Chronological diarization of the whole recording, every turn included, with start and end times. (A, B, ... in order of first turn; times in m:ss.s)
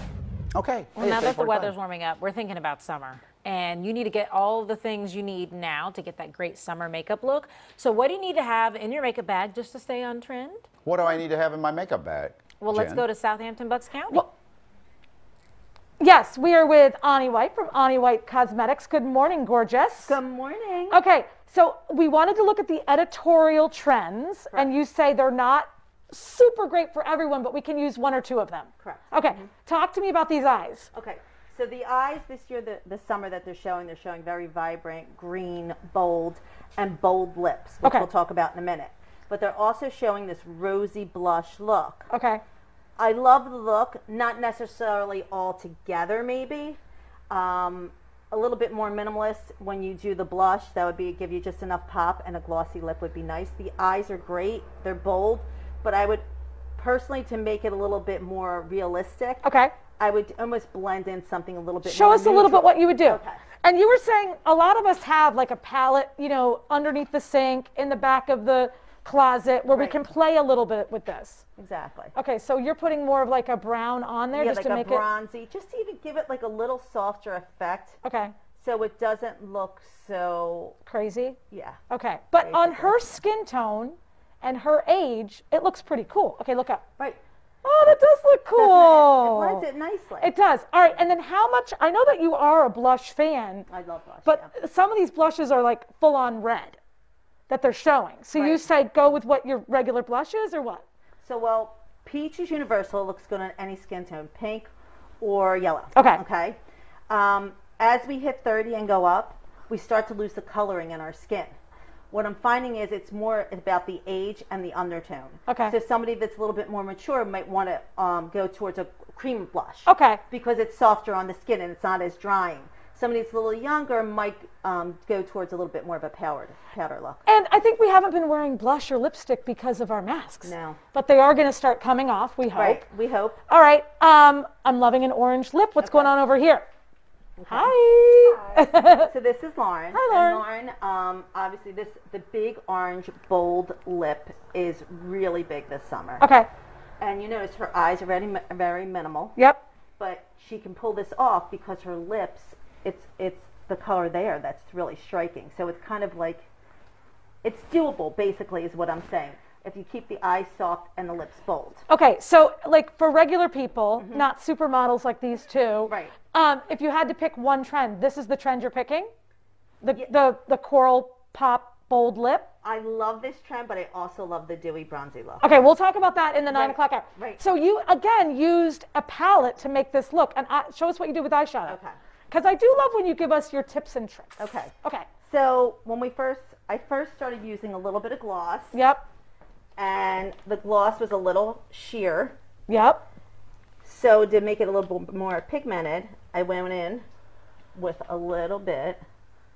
0:00.6-0:01.7 A
0:01.0-0:10.6 B
0:10.8-0:13.0 A
0:12.6-0:14.2 B
0:16.0-0:20.2 C
0:20.0-0:21.0 D
0:20.9-0:30.9 C
0:28.8-0:29.5 D
0:30.9-0:42.1 D
0:42.1-0:42.4 C
0:43.0-0:46.8 D
0:47.3-0:56.2 D
0:56.8-0:59.4 D
0:59.4-0:59.8 C
1:00.0-1:03.4 D
1:01.8-1:11.5 C
1:09.7-1:10.0 D
1:11.6-1:12.1 D
1:12.2-1:15.0 C
1:14.3-1:18.0 D
1:18.0-1:18.4 C
1:18.6-1:20.8 D
1:20.8-1:21.4 C
1:21.5-1:21.8 D
1:21.9-1:26.8 C
1:22.4-1:23.0 D
1:27.6-1:29.6 C
1:28.6-1:30.3 D
1:30.2-1:33.7 C
1:33.7-1:34.5 D
1:34.2-1:36.8 C
1:37.5-1:40.8 C
1:38.4-1:38.7 D
1:41.2-1:44.7 D
1:45.2-1:46.6 D
1:45.9-1:46.2 C
1:47.1-1:51.5 D
1:52.1-2:07.2 D
1:55.5-1:55.8 C
1:59.9-2:00.2 C
2:07.3-2:12.8 C
2:10.4-2:10.8 D
2:12.6-2:13.4 D
2:13.5-2:16.7 C
2:15.8-2:16.1 D
2:17.4-2:26.3 D
2:17.5-2:19.1 C
2:19.9-2:20.4 C
2:26.2-2:26.5 C
2:27.0-2:29.4 D
2:29.4-2:29.6 C
2:30.0-2:36.5 D
2:37.4-2:41.8 D
2:41.9-2:49.1 C
2:44.0-2:44.3 D
2:45.9-2:46.2 D
2:49.8-2:52.5 C
2:52.6-2:55.6 D
2:55.4-3:01.8 C
2:56.5-2:57.4 D
3:01.7-3:02.0 D
3:02.3-3:05.1 C
3:04.4-3:04.7 D
3:05.2-3:08.8 D
3:08.7-3:09.0 C
3:09.8-3:12.4 D
3:12.7-3:13.1 C
3:13.8-3:17.0 D
3:17.8-3:19.0 D